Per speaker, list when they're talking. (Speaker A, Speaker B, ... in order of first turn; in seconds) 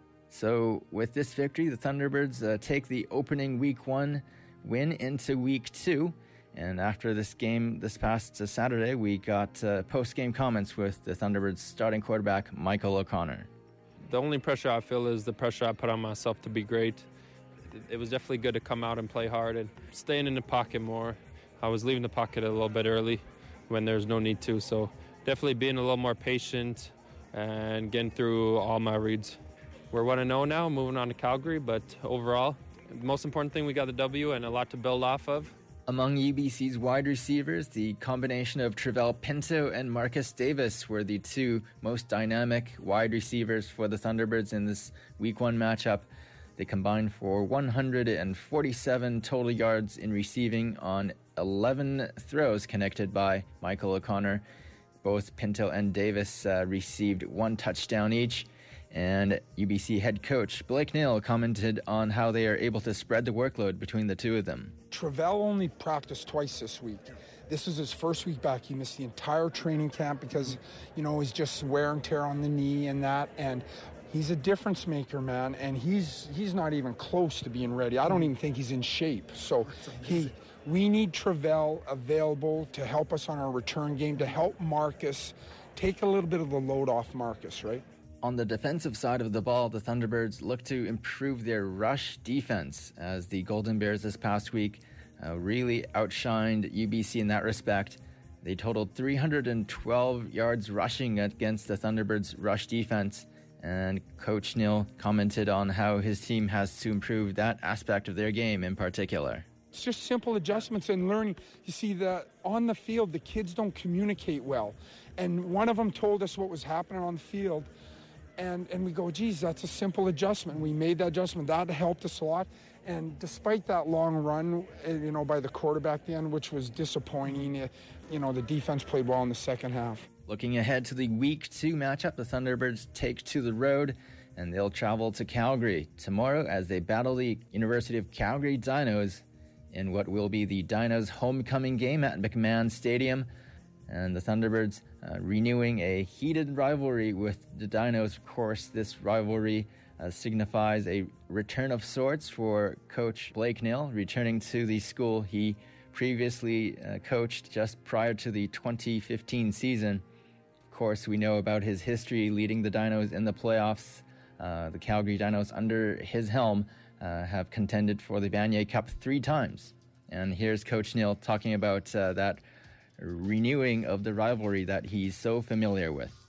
Speaker A: 0.3-13.5, 35.9-54.4, 55.0-64.7, 88.2-109.4, 130.3-143.3, 143.9-160.0, 160.7-172.4, 173.0-176.2
Speaker B: 14.0-17.1, 17.7-29.4, 29.9-35.5
Speaker C: 65.0-87.8, 109.8-117.7, 118.4-130.0